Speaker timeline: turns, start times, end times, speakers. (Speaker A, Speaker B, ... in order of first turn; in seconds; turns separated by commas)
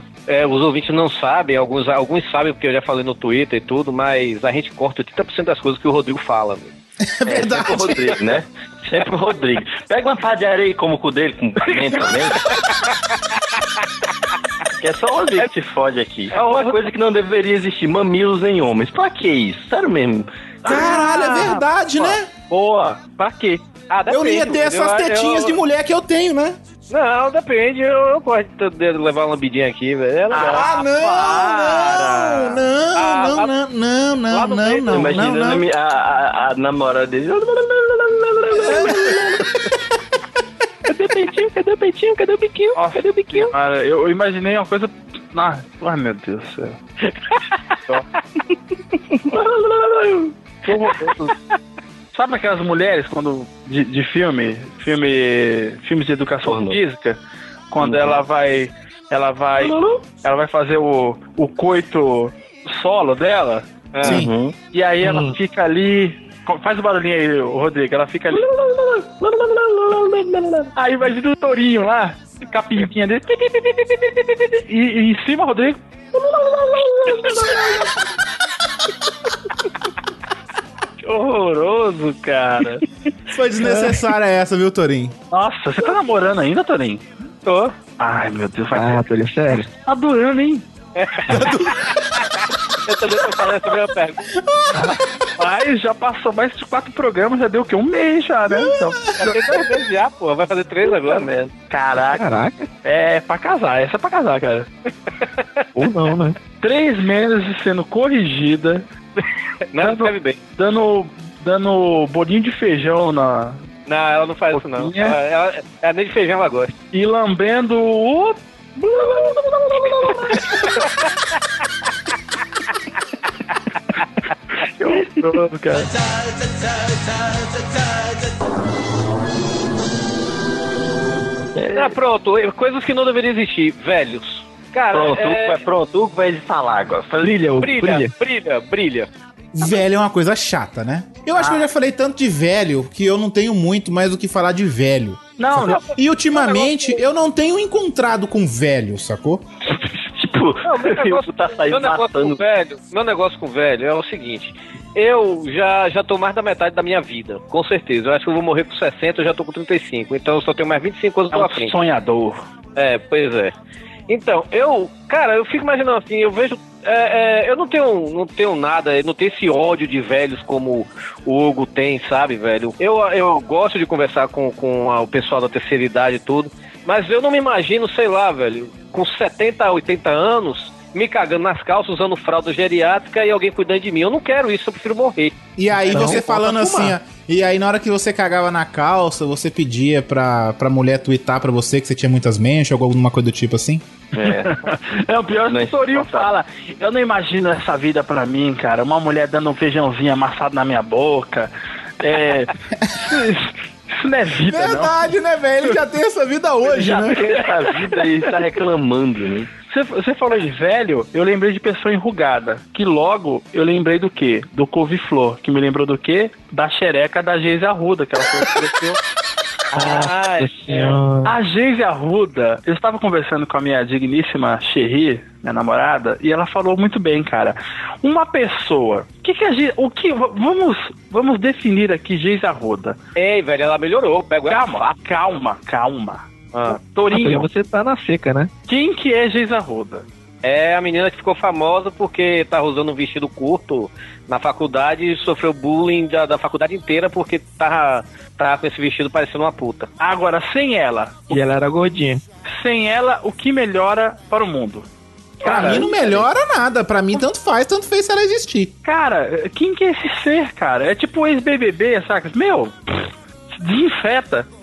Speaker A: 0.3-6.7, Speaker B: 7.0-8.2, Speaker C: 7.3-12.5, Speaker C: 14.8-20.3, Speaker D: 16.3-16.8, Speaker D: 20.6-23.7, Speaker B: 20.7-22.3, Speaker A: 23.9-25.6, Speaker B: 24.1-26.6, Speaker A: 26.9-30.7, Speaker D: 30.3-32.6, Speaker B: 30.5-35.7, Speaker A: 33.0-33.5, Speaker A: 34.3-35.2, Speaker C: 34.9-39.4, Speaker D: 42.8-46.8, Speaker C: 49.3-50.3, Speaker D: 50.7-51.3, Speaker D: 52.1-57.2, Speaker C: 56.4-56.8, Speaker D: 57.7-63.7, Speaker C: 57.8-58.2, Speaker C: 59.6-60.0, Speaker A: 64.0-64.2, Speaker C: 64.0-64.6, Speaker B: 64.0-64.3, Speaker D: 64.7-68.5, Speaker E: 65.0-65.3, Speaker C: 68.3-70.7, Speaker D: 70.8-75.8, Speaker C: 76.2-77.7, Speaker D: 77.2-77.6, Speaker D: 81.0-82.9, Speaker B: 83.3-85.2, Speaker D: 83.6-84.1, Speaker D: 85.3-89.1, Speaker E: 88.7-89.7, Speaker D: 89.9-90.7, Speaker A: 91.0-92.3, Speaker B: 91.3-91.9, Speaker A: 92.8-94.3, Speaker D: 94.8-99.7, Speaker A: 99.2-101.3, Speaker C: 100.9-101.5, Speaker D: 101.7-102.3, Speaker E: 102.1-102.7, Speaker D: 102.8-104.7, Speaker E: 105.8-106.4, Speaker D: 106.6-108.8, Speaker A: 109.7-110.4, Speaker D: 109.8-113.7, Speaker A: 113.9-116.8, Speaker D: 114.6-115.2, Speaker D: 116.9-120.8, Speaker D: 124.8-125.9, Speaker C: 131.6-131.9, Speaker A: 131.7-135.6, Speaker C: 134.9-137.4, Speaker E: 137.2-138.1, Speaker A: 137.6-139.1, Speaker B: 139.5-149.4, Speaker D: 141.3-141.7, Speaker D: 145.4-147.0, Speaker C: 149.7-152.4, Speaker A: 150.7-161.8, Speaker D: 161.3-162.4, Speaker A: 162.8-163.5, Speaker A: 164.1-185.3, Speaker B: 185.6-193.8, Speaker E: 185.9-186.9, Speaker C: 194.1-194.8, Speaker D: 194.2-202.5, Speaker C: 195.4-196.3, Speaker D: 203.1-205.1, Speaker B: 204.5-207.2, Speaker C: 206.6-209.5, Speaker D: 207.2-208.4, Speaker D: 209.7-219.0, Speaker A: 219.7-221.0, Speaker D: 219.8-220.1, Speaker E: 219.8-221.3, Speaker D: 221.2-233.0, Speaker A: 233.2-234.9, Speaker D: 234.5-237.4, Speaker A: 236.5-236.8, Speaker E: 237.1-238.5, Speaker D: 238.7-240.1, Speaker A: 240.4-249.9, Speaker D: 250.0-251.4, Speaker E: 251.3-252.2, Speaker D: 252.5-254.9, Speaker D: 255.4-256.2, Speaker B: 255.4-258.7, Speaker A: 255.5-256.0, Speaker D: 258.8-264.5